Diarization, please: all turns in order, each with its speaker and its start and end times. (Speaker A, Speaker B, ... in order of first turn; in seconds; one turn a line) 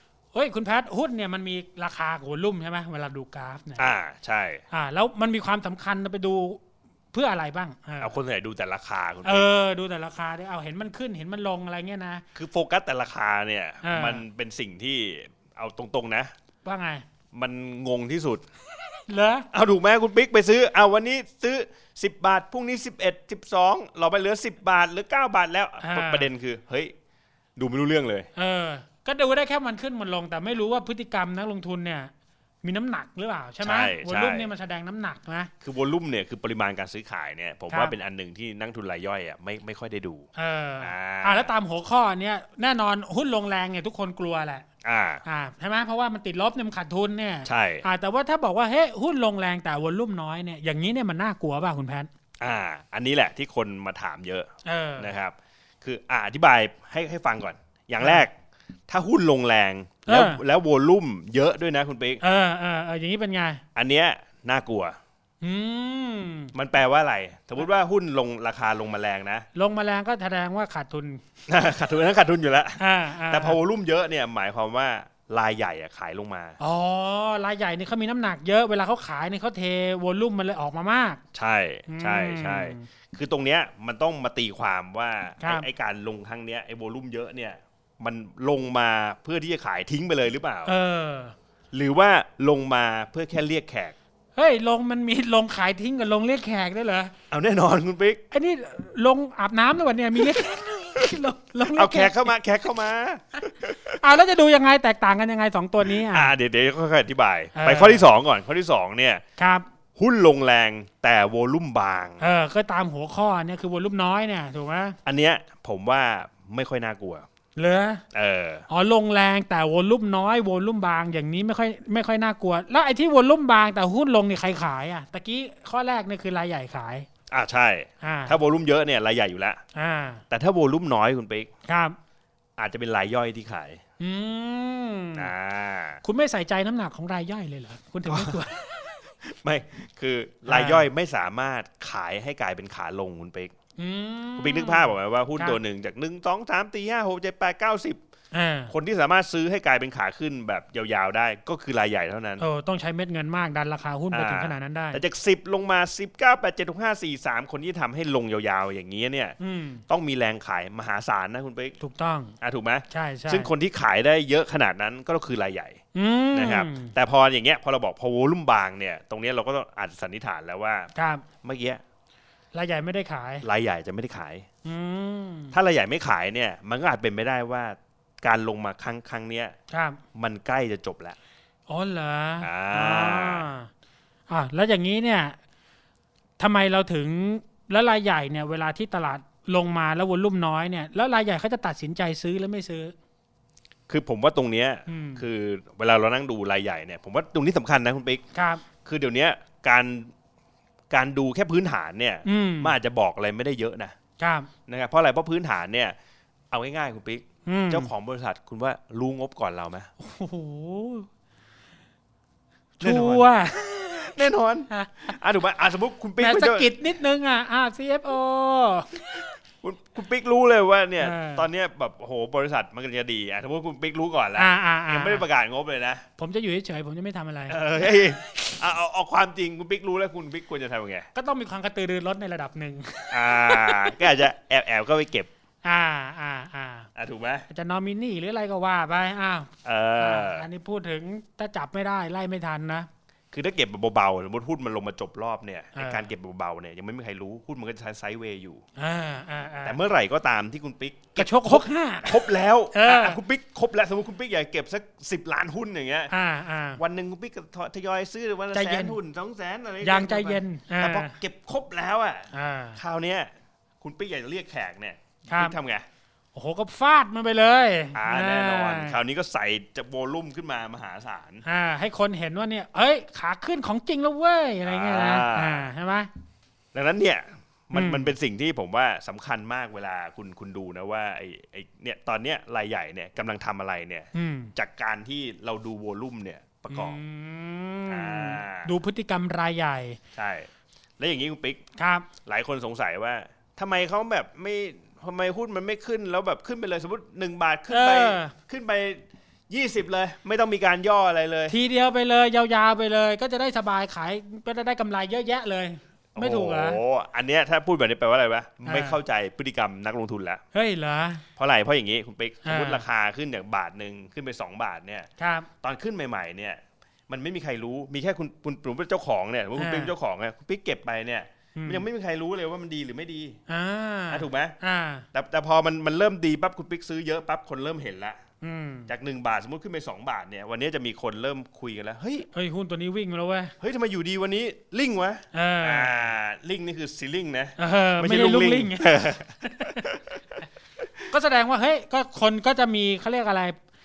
Speaker A: 0.3-3.9
Speaker B: 3.8-4.6
Speaker A: 4.7-6.6
Speaker A: 7.1-8.1
Speaker B: 8.0-9.4
Speaker A: 9.2-12.2
Speaker B: 12.3-16.3
Speaker A: 13.8-14.2
Speaker A: 16.6-17.0
Speaker B: 17.3-18.4
Speaker A: 19.0-19.5
Speaker B: 19.5-26.9
Speaker A: 25.8-26.3
Speaker B: 27.6-28.3
Speaker A: 28.4-32.1
Speaker A: 32.6-35.5
Speaker B: 33.6-34.5
Speaker B: 35.6-40.3
Speaker A: 40.4-44.6
Speaker B: 40.8-41.5
Speaker B: 44.8-45.2
Speaker A: 45.2-52.1
Speaker B: 47.4-47.8
Speaker B: 52.4-58.3
Speaker A: 54.6-55.1
Speaker A: 58.0-58.2
Speaker B: 58.9-62.2
Speaker A: 60.1-60.4
Speaker A: 62.2-63.6
Speaker B: 63.7-65.0
Speaker A: 65.4-66.5
Speaker B: 66.5-69.5
Speaker A: 69.5-71.2
Speaker B: 71.5-76.6
Speaker A: 72.8-73.6
Speaker A: 76.6-81.2
Speaker B: 81.3-90.7
Speaker A: 81.9-82.8
Speaker A: 85.4-85.7
Speaker A: 90.7-91.3
Speaker B: 91.7-94.0
Speaker A: 94.3-97.1
Speaker B: 97.3-98.2
Speaker A: 98.3-102.3
Speaker B: 101.7-104.0
Speaker A: 103.9-106.3
Speaker B: 105.9-109.2
Speaker A: 107.5-108.0
Speaker A: 109.4-109.7
Speaker B: 110.0-112.3
Speaker A: 112.2-115.0
Speaker B: 115.0-117.2
Speaker A: 117.5-118.0
Speaker B: 118.1-118.7
Speaker A: 118.7-127.1
Speaker B: 127.3-129.6
Speaker A: 128.0-128.4
Speaker A: 129.7-130.2
Speaker B: 130.3-131.5
Speaker A: 131.7-132.0
Speaker B: 132.6-133.8
Speaker A: 134.0-135.3
Speaker B: 135.2-136.0
Speaker A: 136.0-138.9
Speaker B: 138.1-138.4
Speaker B: 139.2-143.5
Speaker A: 140.5-140.9
Speaker A: 143.8-145.6
Speaker B: 144.3-148.0
Speaker A: 148.3-148.7
Speaker B: 148.7-152.4
Speaker A: 152.4-155.0
Speaker B: 154.1-159.4
Speaker A: 159.4-159.8
Speaker B: 159.9-161.8
Speaker A: 161.8-162.3
Speaker B: 162.4-165.8
Speaker A: 162.9-163.5
Speaker A: 165.9-166.9
Speaker B: 166.3-170.9
Speaker A: 170.9-171.2
Speaker B: 171.4-171.8
Speaker A: 172.5-173.4
Speaker B: 173.4-174.5
Speaker A: 174.6-175.5
Speaker B: 175.5-179.6
Speaker A: 179.7-180.0
Speaker B: 180.1-181.2
Speaker A: 181.7-183.7
Speaker B: 182.4-183.4
Speaker A: 184.3-185.4
Speaker A: 186.4-192.9
Speaker B: 193.9-198.2
Speaker A: 194.9-195.2
Speaker A: 198.3-198.6
Speaker B: 198.8-200.1
Speaker B: 200.9-203.9
Speaker A: 202.2-202.7
Speaker A: 204.2-204.5
Speaker B: 204.7-205.9
Speaker B: 206.5-209.9
Speaker A: 207.4-207.9
Speaker A: 210.0-211.1
Speaker B: 212.8-213.3
Speaker A: 212.8-214.2
Speaker B: 213.9-216.7
Speaker A: 214.7-215.2
Speaker A: 216.2-219.2
Speaker B: 219.6-226.0
Speaker A: 221.0-221.4
Speaker A: 224.4-225.2
Speaker A: 226.2-227.6
Speaker B: 227.5-231.1
Speaker A: 231.1-234.0
Speaker B: 233.1-235.3
Speaker A: 235.6-236.9
Speaker B: 236.9-237.5
Speaker A: 237.5-242.9
Speaker B: 239.6-240.5
Speaker B: 243.3-248.6
Speaker A: 245.8-246.1
Speaker A: 248.8-249.8
Speaker B: 249.6-256.1
Speaker A: 251.2-253.2
Speaker A: 256.1-256.8
Speaker B: 256.8-263.3
Speaker A: 258.5-259.0
Speaker A: 259.8-261.1
Speaker A: 262.3-262.8
Speaker B: 263.8-265.9
Speaker A: 265.3-265.5
Speaker A: 266.3-269.0
Speaker B: 267.9-271.4
Speaker A: 271.4-276.1
Speaker B: 274.6-275.7
Speaker B: 276.7-287.0
Speaker A: 277.7-278.1
Speaker A: 284.1-284.5
Speaker A: 286.7-290.0
Speaker B: 287.9-288.7
Speaker B: 290.1-290.5
Speaker B: 291.0-291.6
Speaker A: 291.8-292.1
Speaker B: 292.2-301.6
Speaker A: 297.7-298.3
Speaker A: 301.5-306.8
Speaker B: 306.1-310.4
Speaker A: 308.6-309.0
Speaker A: 310.5-311.2
Speaker B: 311.4-315.1
Speaker A: 312.4-312.8
Speaker A: 315.2-315.5
Speaker B: 315.6-323.4
Speaker A: 319.6-319.9
Speaker A: 321.5-321.8
Speaker A: 323.5-325.1
Speaker B: 324.1-324.6
Speaker B: 325.1-328.2
Speaker A: 328.4-328.9
Speaker B: 328.9-332.3
Speaker A: 332.3-333.5
Speaker B: 333.6-340.0
Speaker A: 335.3-336.0
Speaker A: 337.6-339.9
Speaker A: 341.1-343.6